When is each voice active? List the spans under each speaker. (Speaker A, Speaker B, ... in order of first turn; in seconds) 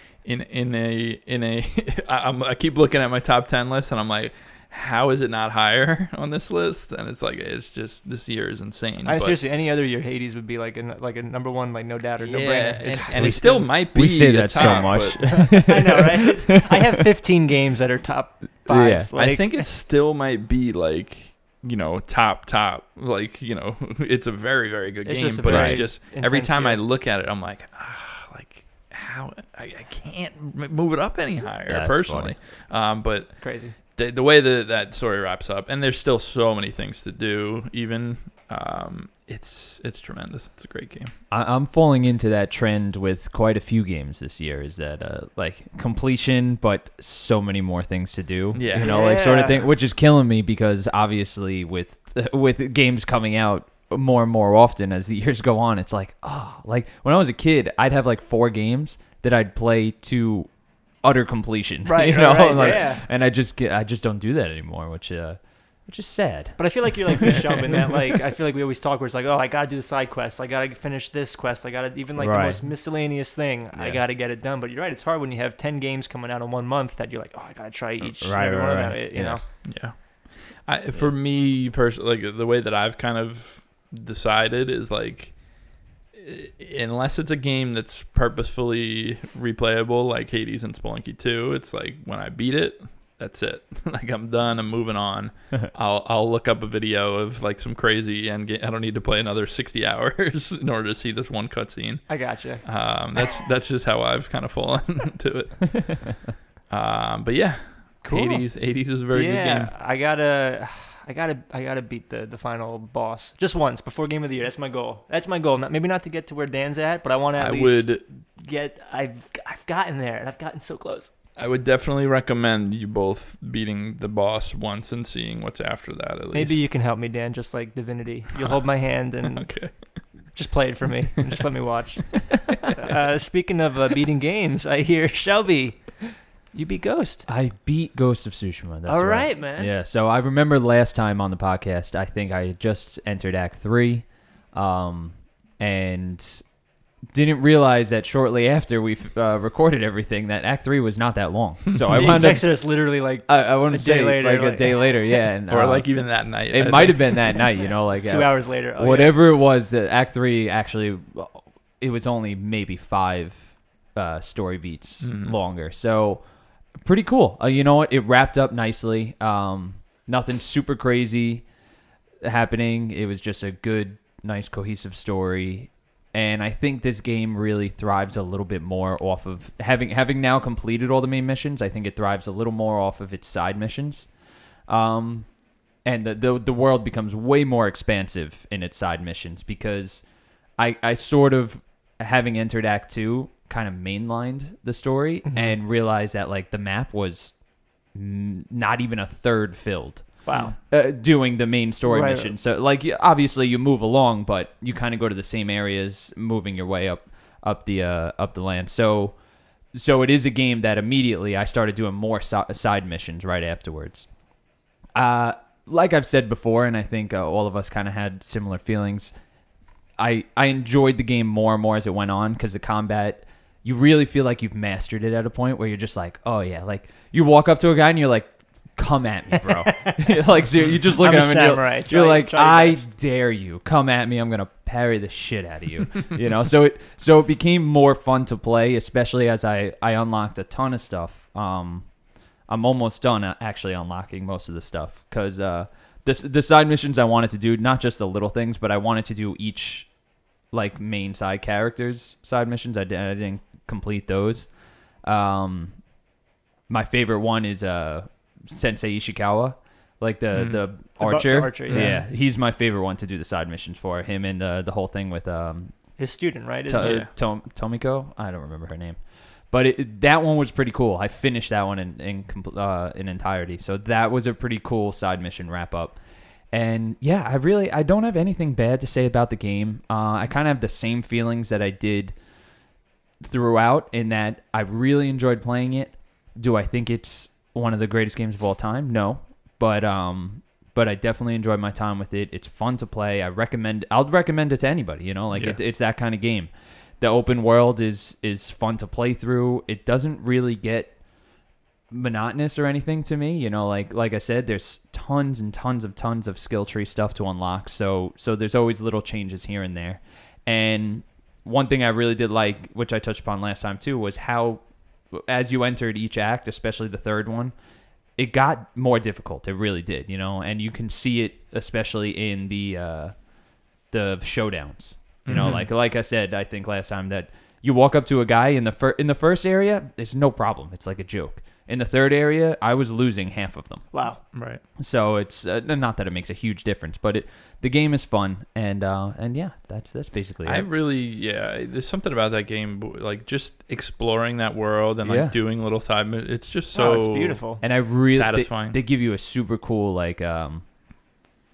Speaker A: 0.2-9.4, 12.2-15.8, 19.1-41.1, 48.5-49.0, 79.6-109.8, 117.4-118.0, 121.4-126.6, 128.4-130.3, 151.8-152.2, 155.5-157.5, 165.0-165.4, 260.3-260.7, 261.7-262.0, 266.7-267.1, 295.3-295.6, 325.2-325.7, 334.3-334.6, 340.5-348.8
Speaker B: 9.0-13.7, 14.5-19.7, 25.0-26.8, 33.4-33.8, 48.7-49.7, 61.9-63.1, 66.6-79.4, 102.1-102.7, 108.0-121.1, 126.3-137.3, 138.9-139.7, 151.9-155.2, 157.8-159.2, 195.2-195.6, 200.2-200.6, 201.9-202.3, 229.3-230.0, 231.0-232.9, 261.0-262.0, 266.0-267.0, 333.9-334.2, 346.7-347.6
Speaker C: 12.8-16.9, 18.7-19.1, 25.4-25.9, 31.7-32.4, 41.3-67.4, 72.2-72.7, 73.7-74.0, 78.2-79.7, 137.3-146.5, 147.1-171.5, 172.2-184.1, 184.7-190.1, 190.6-197.4, 197.9-209.2, 209.7-214.1, 214.9-219.1, 220.0-241.9, 242.5-249.9, 250.5-255.9, 256.7-266.1, 266.7-276.0, 276.5-282.2, 283.2-300.9, 301.9-317.5, 318.2-323.3, 323.9-340.7, 345.0-345.4, 347.6-350.6